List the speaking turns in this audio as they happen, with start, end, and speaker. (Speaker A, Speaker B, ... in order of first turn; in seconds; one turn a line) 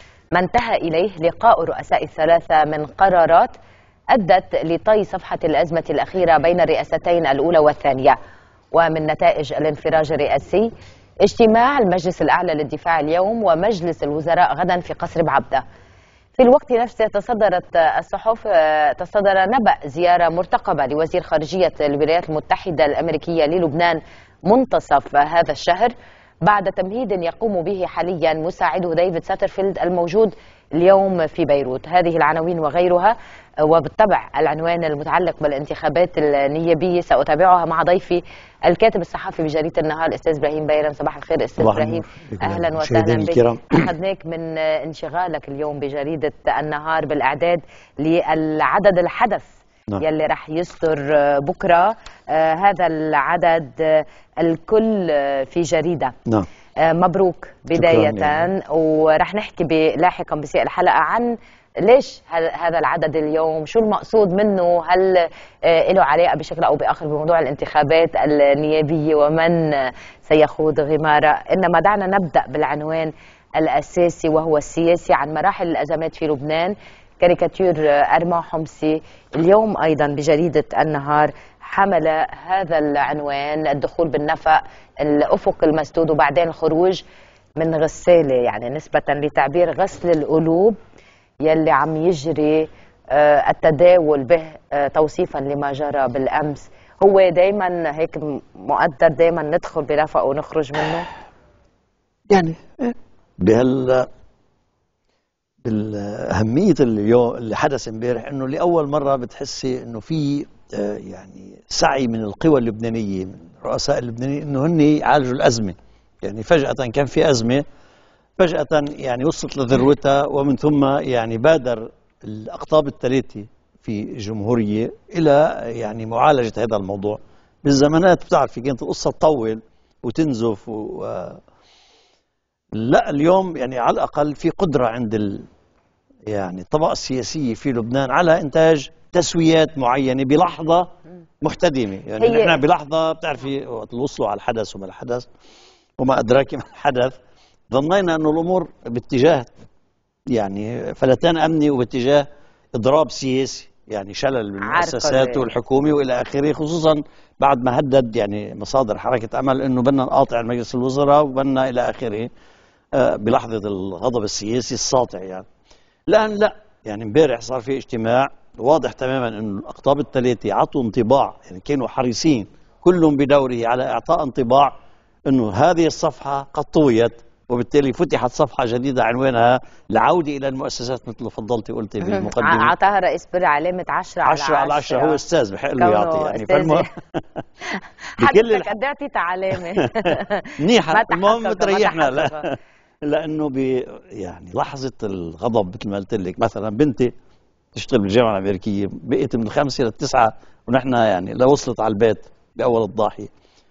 Speaker A: 0.3-3.5
Speaker A: 4.1-8.2
Speaker A: 8.7-10.7
Speaker A: 11.2-15.6
Speaker A: 16.4-56.1
Speaker B: 41.6-43.9
Speaker A: 56.8-87.0
Speaker B: 57.7-58.5
Speaker A: 87.6-90.8
Speaker A: 91.4-101.1
Speaker B: 102.3-104.1
Speaker B: 105.6-117.6
Speaker B: 118.4-131.4
Speaker B: 132.7-135.5
Speaker B: 136.3-140.9
Speaker B: 141.4-145.3
Speaker A: 142.2-142.6
Speaker B: 146.0-147.2
Speaker B: 147.7-149.5
Speaker B: 150.3-162.3
Speaker A: 154.6-155.5
Speaker B: 162.9-165.5
Speaker B: 166.1-174.7
Speaker B: 175.3-182.7
Speaker A: 182.0-185.2
Speaker B: 184.2-187.4
Speaker A: 185.8-186.9
Speaker A: 187.7-192.4
Speaker B: 188.2-188.7
Speaker B: 190.1-192.5
Speaker B: 193.1-197.1
Speaker B: 197.8-203.3